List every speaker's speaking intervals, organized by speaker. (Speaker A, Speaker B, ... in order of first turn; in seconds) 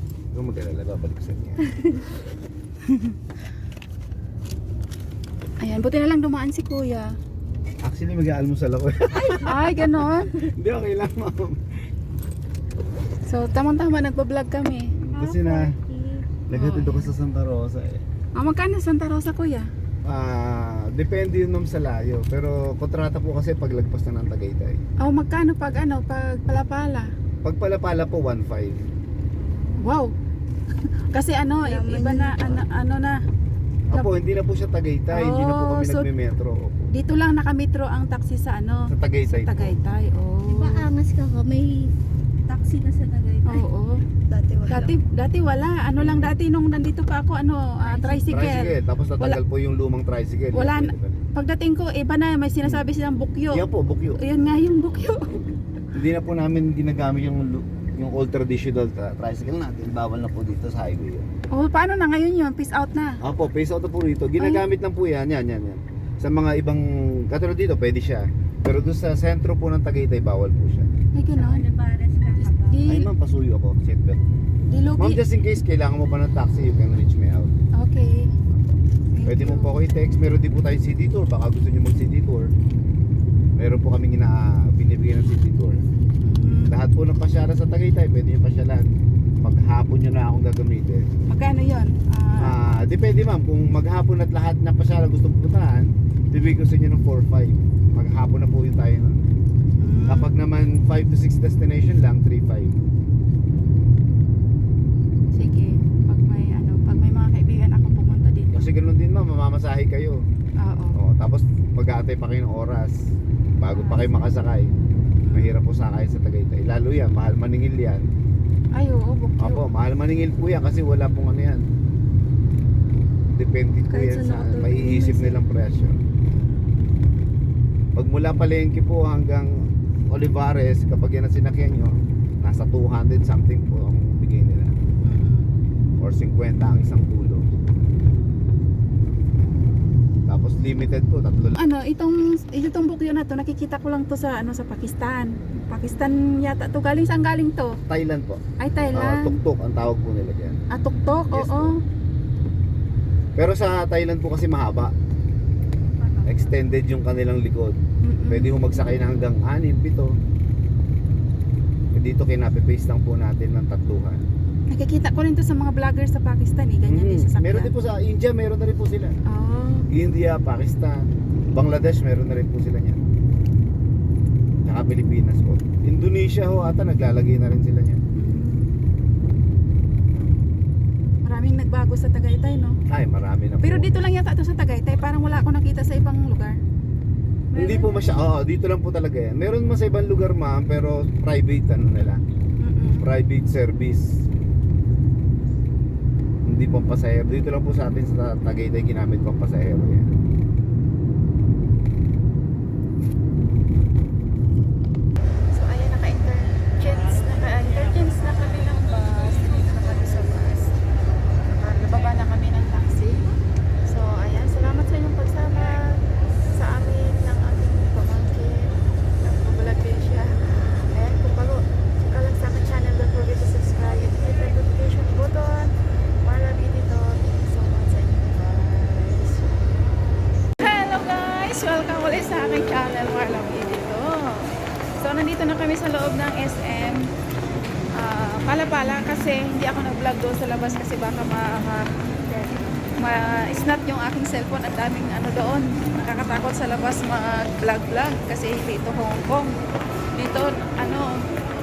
Speaker A: 0.3-1.7, 7.8-11.6, 15.0-15.8, 16.5-18.0, 20.0-24.8, 27.4-28.9, 33.9-36.9, 38.9-39.8, 46.0-46.3, 48.3-51.2, 53.5-54.2, 55.9-61.3, 63.2-70.9, 72.9-74.2, 75.0-77.5, 79.2-82.5, 83.5-85.8, 86.7-91.1, 92.4-99.3, 100.1-102.8, 108.5-110.2, 110.9-113.0, 113.6-114.7, 115.3-118.1, 119.4-121.6, 123.3-126.0, 128.0-129.5, 130.1-134.7, 136.0-137.4, 140.3-141.6, 147.9-150.6, 151.3-151.7, 153.3-154.9, 156.2-160.2, 161.9-164.2, 166.8-169.2, 169.9-173.0, 174.6-178.0, 182.9-183.9, 187.5-192.2, 193.0-194.2, 196.4-200.1
Speaker B: 2.9-3.1, 5.6-7.1, 9.4-10.4, 13.2-15.4, 16.5-17.1, 18.4-19.7, 25.0-27.1, 29.8-30.1, 31.1-33.2, 35.1-36.1, 36.9-40.9, 43.5-44.0, 44.7-49.4, 50.5-53.6, 54.2-55.4, 61.5-63.2, 64.4-64.6, 71.1-71.7, 72.4-73.1, 74.7-75.2, 77.7-78.3, 79.1-79.8, 86.2-86.8, 91.3-92.5, 99.8-100.3, 105.3-108.5, 110.6-111.0, 113.7-114.1, 115.2-115.6, 118.8-119.6, 135.0-135.5, 141.5-147.8, 148.6-149.4, 150.7-151.8, 158.0-158.7, 164.7-167.7, 169.3-169.9, 178.1-178.7, 181.2-182.8, 183.6-186.6, 192.6-193.0, 205.5-210.7, 211.4-213.2, 213.8-216.0, 216.5-229.5, 230.6-237.1, 238.0-241.9, 243.0-249.6, 250.1-251.2
Speaker C: 15.2-16.3, 29.4-29.8, 31.6-32.6, 40.4-41.9, 42.4-43.6, 44.3-44.9, 47.8-48.2, 71.3-72.8, 123.9-125.4, 156.0-156.6, 187.5-188.1